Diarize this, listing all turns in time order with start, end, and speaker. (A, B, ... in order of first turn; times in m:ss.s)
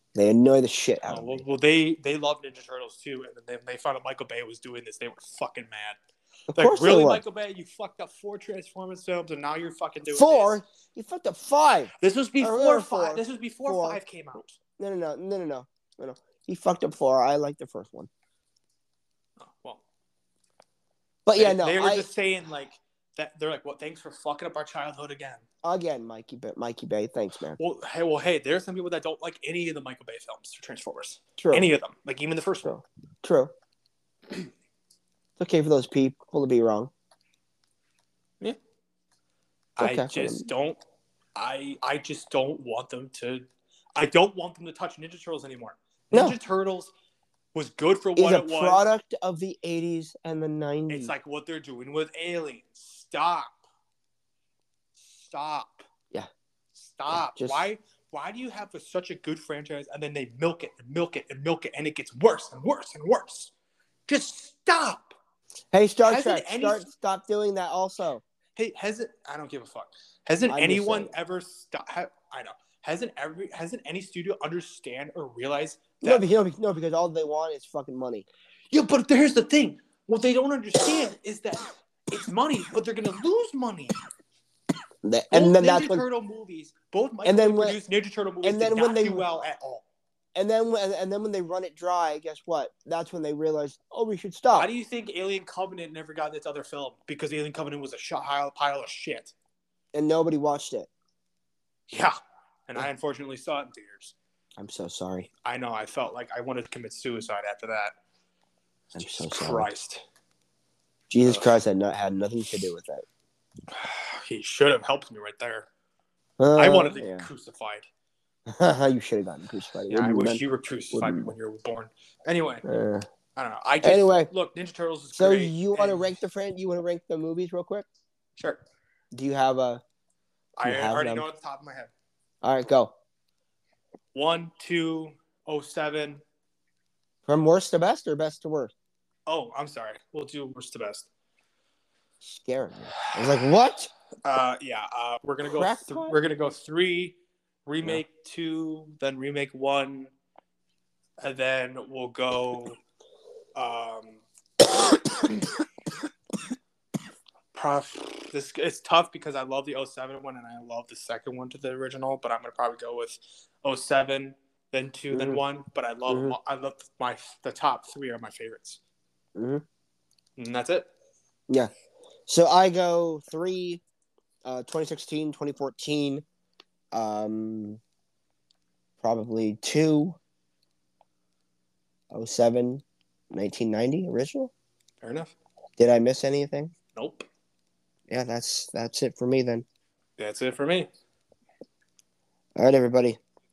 0:00.1-0:01.4 A
0:01.0-0:06.0 B
0:06.5-0:07.2 A
0:06.5-0:10.6 B
0:10.1-0:14.0 A
0:12.0-0:14.6 B
0:14.8-0:18.1 A
0:19.4-0:19.8 B
0:21.2-0:22.1 A
0:21.4-0:25.4 B
0:25.6-0:27.6 A
0:27.6-0:32.8 B
0:31.4-0:31.6 A
0:32.7-0:33.5 A
0:35.4-0:36.9 A
0:39.8-0:40.8 B
0:39.8-0:40.4 A
0:41.4-0:46.9 B
0:47.5-0:48.8 B
0:48.2-0:51.1 A
0:50.9-0:53.6 B
0:55.0-0:55.8 B
0:56.7-1:03.5 B
0:57.1-0:57.6 A
1:04.1-1:05.1 B
1:05.7-1:08.2 A
1:06.0-1:06.9 B
1:08.6-1:16.2 B
1:10.5-1:11.1 A
1:16.0-1:18.3 A
1:18.7-1:24.0 B
1:25.0-1:26.0 A
1:25.3-1:29.8 B
1:27.2-1:27.8 A
1:28.4-1:29.2 A
1:30.3-1:34.7 A
1:34.5-1:39.3 B
1:39.9-1:40.9 A
1:41.9-1:42.1 B
1:42.7-1:44.1 B
1:44.6-1:45.3 A
1:45.4-1:47.9 B
1:48.9-1:50.0 B
1:48.9-1:49.7 A
1:51.1-1:53.0 A
1:53.7-1:55.7 B
1:56.4-1:57.3 A
1:56.6-1:57.9 B
1:58.5-2:00.4 A
1:59.9-2:02.6 B
2:00.9-2:01.3 A
2:02.6-2:03.1 A
2:03.4-2:06.1 B
2:03.8-2:04.3 A
2:05.1-2:07.8 A
2:08.4-2:08.6 B
2:09.1-2:09.8 A
2:10.6-2:11.9 B
2:10.6-2:11.3 A
2:12.4-2:12.9 A
2:14.1-2:16.2 B
2:17.3-2:18.7 A
2:19.3-2:21.1 B
2:22.2-2:23.9 A
2:24.2-2:30.1 B
2:25.5-2:26.2 A
2:31.2-2:32.8 B
2:33.5-2:34.2 B
2:34.9-2:35.3 B
2:37.5-2:48.8 B
2:45.1-2:45.4 A
2:46.1-2:46.4 A
2:49.4-2:49.6 A
2:50.4-2:50.9 B
2:52.3-2:53.8 A
2:54.4-2:56.2 A
2:56.9-2:57.8 A
2:59.0-3:00.2 A
3:02.1-3:04.5 A
3:05.0-3:05.3 B
3:05.8-3:06.7 A
3:07.0-3:07.3 B
3:08.1-3:09.6 A
3:10.2-3:10.9 B
3:12.6-3:13.2 A